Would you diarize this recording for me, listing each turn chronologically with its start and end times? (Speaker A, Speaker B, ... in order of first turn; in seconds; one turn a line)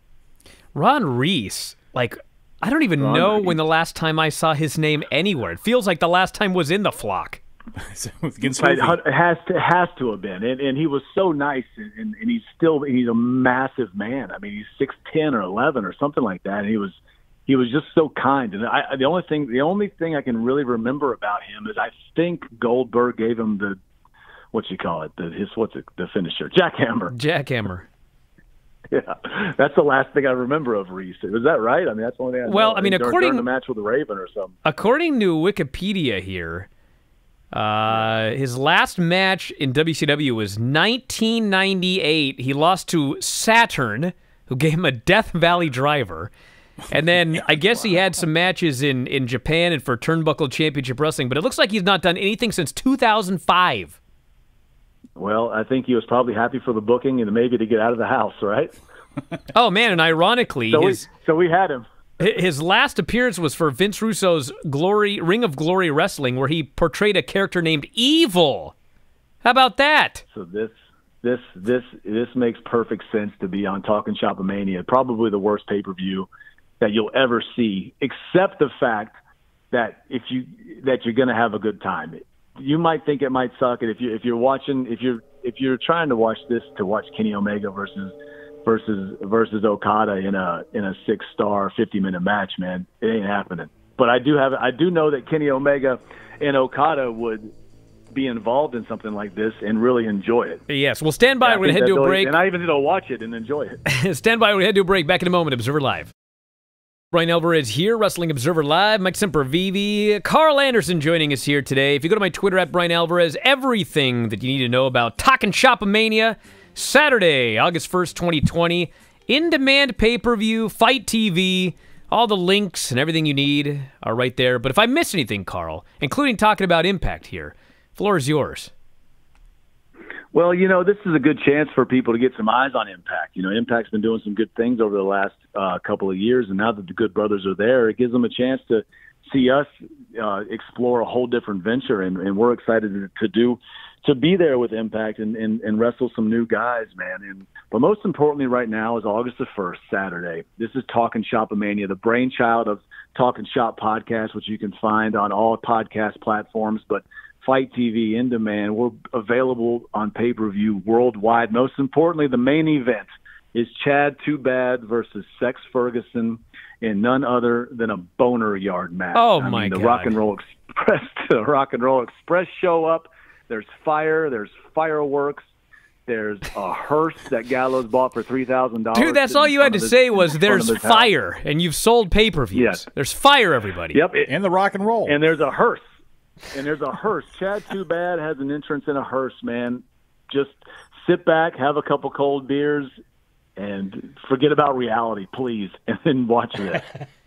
Speaker A: 0.7-7.4
Speaker B: 3.0-3.6
Speaker C: 7.8-9.0
Speaker B: 8.4-23.8
Speaker B: 24.5-27.1
Speaker A: 27.1-27.9
Speaker B: 28.9-34.5
Speaker A: 32.5-33.5
Speaker A: 34.6-36.7
Speaker A: 37.5-46.3
Speaker A: 46.9-54.0
Speaker B: 55.2-58.7
Speaker A: 59.5-61.0
Speaker B: 60.7-61.8
Speaker A: 62.2-68.7
Speaker A: 69.4-70.2
Speaker B: 70.3-76.3
Speaker B: 76.8-79.2
Speaker B: 79.7-88.1
Speaker B: 88.7-97.5
Speaker B: 98.1-100.6
Speaker A: 100.7-102.3
Speaker B: 101.4-103.8
Speaker A: 103.8-106.1
Speaker A: 107.1-128.7
Speaker B: 130.3-175.4
Speaker A: 169.1-170.2
Speaker B: 176.1-181.1
Speaker A: 178.9-184.0
Speaker B: 182.5-182.8
Speaker B: 183.9-184.3
Speaker C: 184.3-185.2
Speaker B: 185.1-185.8
Speaker B: 186.5-192.9
Speaker B: 193.6-196.8